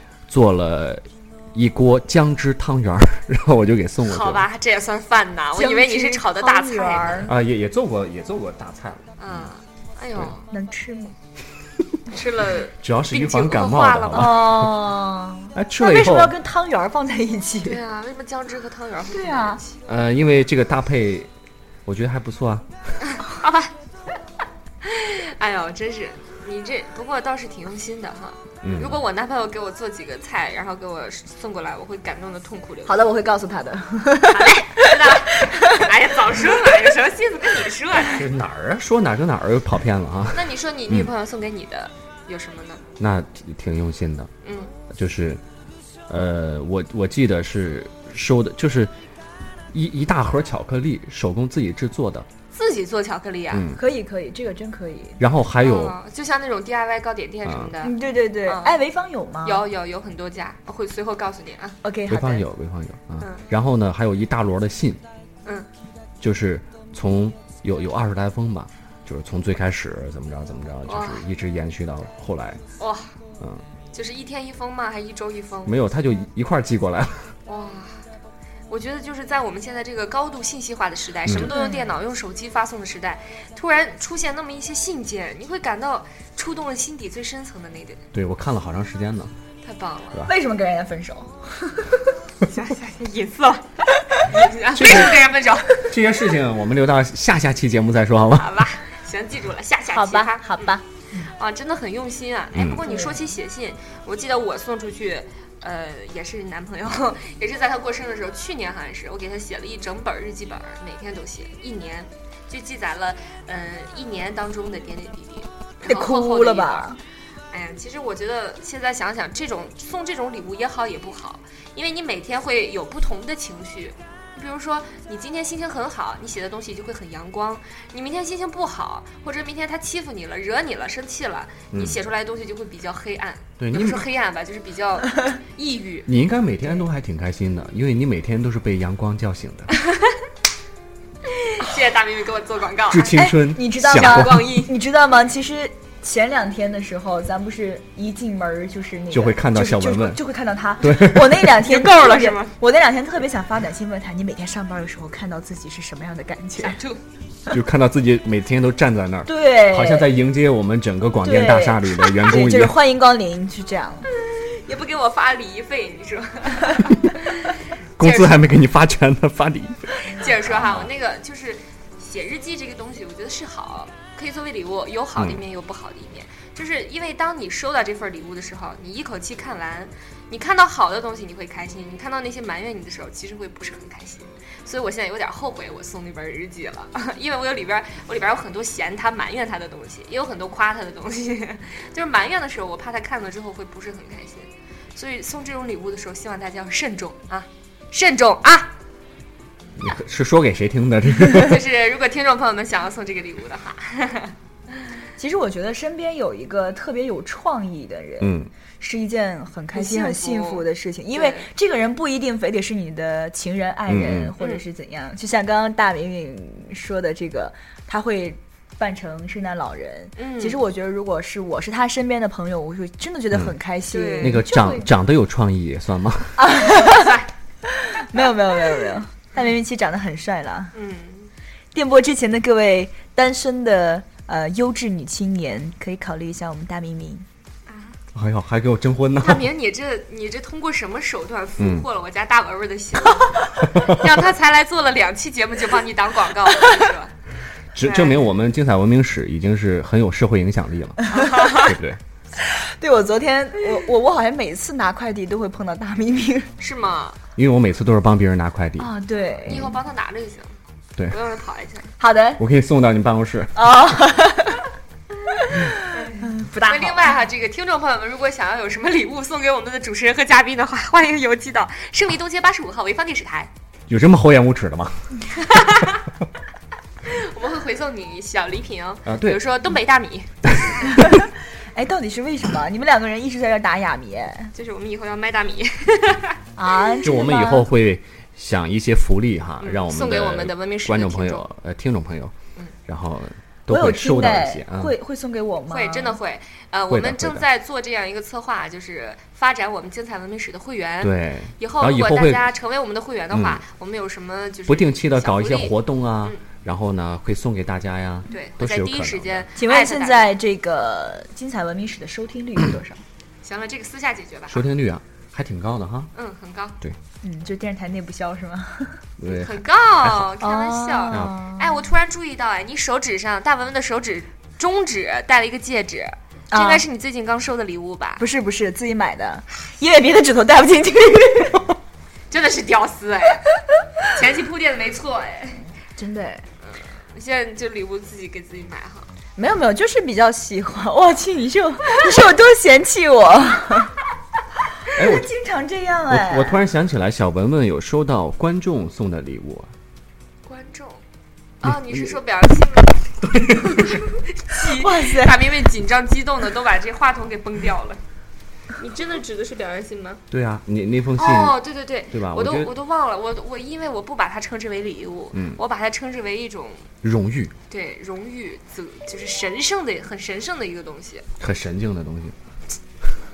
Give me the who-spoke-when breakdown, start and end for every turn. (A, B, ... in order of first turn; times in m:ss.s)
0:00.3-0:04.4 A
0:04.0-0:07.3 B
0:05.5-0:07.3 C
0:07.3-0:09.5 A
0:09.2-0:10.5 B
0:10.5-0:11.1 C
0:12.1-0:14.4 B
0:12.8-0:14.8 A
0:14.1-0:17.8 C
0:15.5-0:16.4 A
0:17.6-0:19.8 B
0:19.1-0:19.6 C
0:19.8-0:21.3 A
0:21.8-0:22.7 A
0:23.0-0:23.7 B
0:24.8-0:33.0 B
0:28.6-0:29.0 A
0:32.8-0:35.9 C
0:34.3-0:38.2 B
0:38.0-0:41.1 A
0:40.3-0:42.8 B
0:43.0-0:44.3 A
0:44.4-0:44.7 B
0:44.9-0:45.4 A
0:46.1-0:48.9 A
0:49.7-0:52.3 A
0:52.5-0:53.6 B
0:53.5-0:53.8 A
0:53.7-0:55.2 C
0:55.2-0:56.0 A
0:55.6-0:58.8 B
0:57.4-0:57.7 A
0:57.8-0:59.6 C
0:59.4-1:01.8 B
1:01.8-1:02.4 C
1:02.1-1:05.0 A
1:03.2-1:03.4 B
1:06.2-1:12.6 A
1:10.9-1:11.2 B
1:12.8-1:13.1 B
1:13.9-1:15.7 B
1:15.6-1:17.3 A
1:17.4-1:18.0 B
1:18.7-1:28.0 B
1:21.3-1:22.0 C
1:28.1-1:29.3 A
1:29.6-1:30.2 B
1:30.2-1:32.1 C
1:32.4-1:35.9 B
1:34.7-1:35.2 A
1:35.8-1:38.5 A
1:38.4-1:40.8 B
1:39.9-1:41.3 C
1:41.3-1:56.9 B
1:42.5-1:42.8 A
1:42.8-1:43.2 C
1:55.8-1:57.0 C
1:57.5-2:16.1 B
2:11.7-2:12.0 A
2:13.6-2:14.0 A
2:16.1-2:19.7 A
2:19.8-2:20.2 B
2:21.3-2:24.7 B
2:22.9-2:24.5 A
2:23.1-2:36.8 C
2:29.1-2:30.2 A
2:30.8-2:31.5 A
2:31.6-2:32.5 B
2:36.6-2:37.0 B
2:37.5-2:42.8 A
2:39.2-2:40.1 C
2:41.2-2:44.1 C
2:44.1-2:48.5 B
2:48.0-2:50.9 A
2:50.1-3:18.7 B
3:19.8-3:21.6 A
3:21.3-3:24.3 B
3:25.2-3:44.9 C
3:28.2-3:28.5 A
3:29.7-3:31.5 B
3:33.9-3:34.3 A
3:40.2-3:40.6 B
3:43.9-3:44.4 B
3:44.2-3:46.4 A
3:46.4-3:50.7 C
3:46.7-3:47.3 B
3:50.7-3:51.3 B
3:51.7-3:57.2 C
3:57.7-3:58.0 B
3:58.1-3:59.5 A
3:59.2-4:07.1 B
4:01.6-4:01.9 A
4:03.7-4:04.0 A
4:07.7-4:12.0 A
4:07.8-4:08.2 B
4:11.1-4:11.8 B
4:11.1-4:11.4 C
4:12.4-4:16.5 C
4:16.6-4:17.2 B
4:17.4-4:18.9 A
4:18.8-4:19.7 C
4:19.4-4:19.7 A
4:19.5-4:20.5 B
4:21.1-4:21.9 B
4:22.0-4:22.4 C
4:22.4-4:23.6 A
4:23.5-4:24.7 C
4:25.3-4:27.2 C
4:25.9-4:33.5 B
4:33.9-4:35.1 A
4:35.3-4:36.0 B
4:37.0-4:40.8 B
4:39.0-4:39.4 A
4:40.8-4:44.5 C
4:44.5-4:46.4 B
4:46.6-4:47.7 C
4:47.0-4:52.3 A
4:49.6-4:51.4 B
4:52.9-4:55.0 A
4:53.7-4:56.2 C
4:55.7-5:06.4 B
4:56.9-4:57.4 A
5:01.0-5:02.5 A
5:03.3-5:03.6 A
5:04.7-5:09.5 A
5:08.3-5:10.3 B
5:09.6-5:13.0 C
5:13.4-5:14.6 B
5:14.5-5:16.1 A
5:16.1-5:16.8 B
5:17.2-5:19.0 C
5:19.2-5:20.3 A
5:19.3-5:28.2 B
5:20.4-5:21.8 C
5:21.1-5:21.4 A
5:26.5-5:26.8 C
5:28.2-5:31.8 C
5:32.3-5:33.5 B
5:34.0-5:35.6 B
5:36.0-5:36.4 C
5:36.6-5:39.1 B
5:39.4-5:44.0 C
5:44.8-5:46.6 C
5:44.9-5:45.3 A
5:46.1-5:49.7 A
5:50.4-5:51.0 B
5:51.6-5:58.0 B
5:51.6-5:52.2 A
5:53.2-5:54.1 A
5:54.5-5:55.5 C
5:58.7-6:00.2 B
6:00.3-6:02.7 A
6:01.2-6:06.9 B
6:05.3-6:05.6 A
6:07.0-6:07.5 A
6:07.7-6:11.2 B
6:11.4-6:12.3 A